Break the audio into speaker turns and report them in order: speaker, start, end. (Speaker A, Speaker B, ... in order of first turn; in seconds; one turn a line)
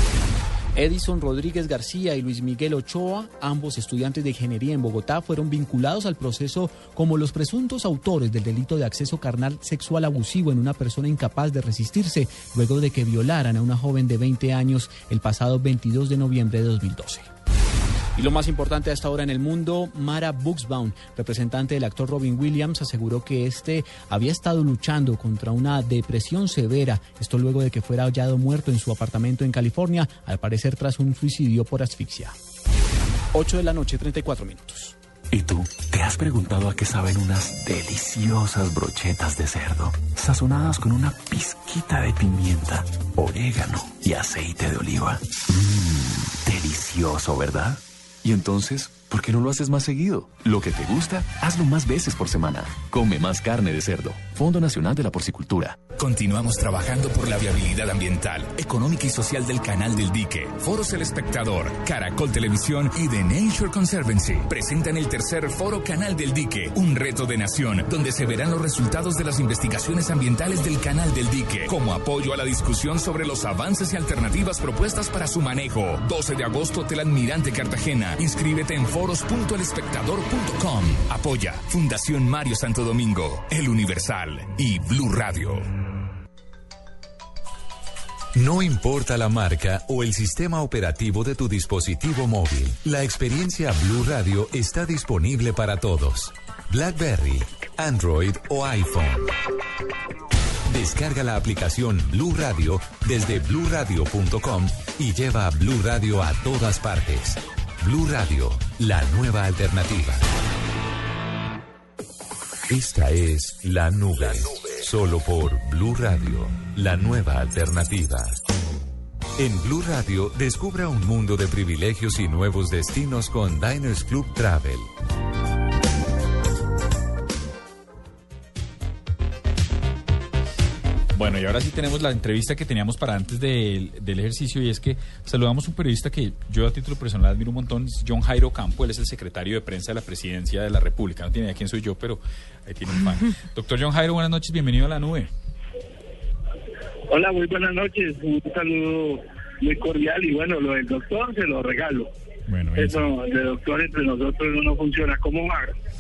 Speaker A: 0.8-17.3
Speaker A: 18.1-32.3
Speaker A: 33.3-34.9
Speaker B: 35.3-55.8
Speaker C: 56.0-85.6
Speaker D: 88.3-99.3
Speaker D: 100.7-110.2
Speaker D: 112.7-118.3
Speaker D: 119.4-124.9
Speaker E: 131.1-145.3
Speaker F: 147.1-152.1
Speaker E: 152.5-153.1
Speaker F: 152.8-155.7